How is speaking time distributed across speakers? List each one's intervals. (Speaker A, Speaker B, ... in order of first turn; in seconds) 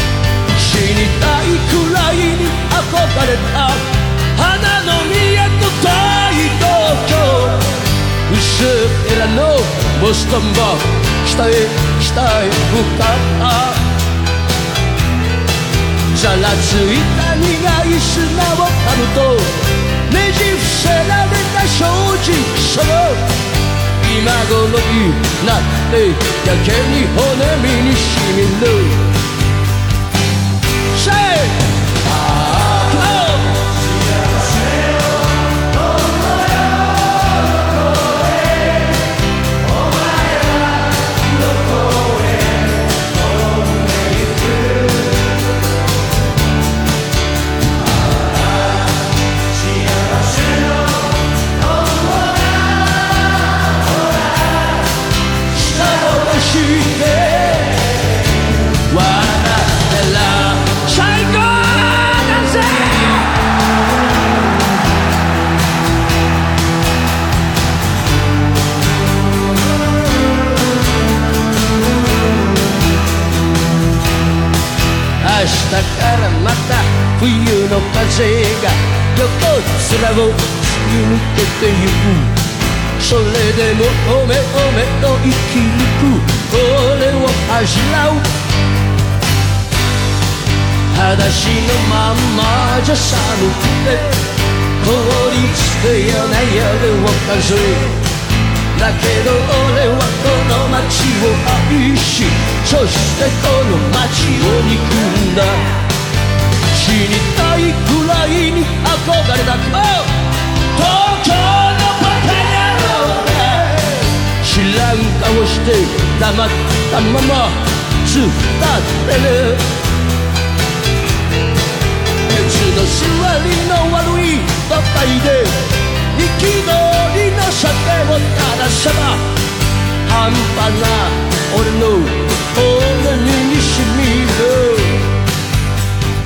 Speaker A: 0.5-7.7, 8.3-13.8, 16.1-23.2, 24.0-29.1, 30.9-33.8, 55.5-58.0, 58.9-63.4, 75.2-82.4, 83.0-88.3, 90.9-94.2, 94.8-98.0, 98.7-105.8, 106.7-110.1, 110.7-119.7, 122.3-129.2, 130.0-135.1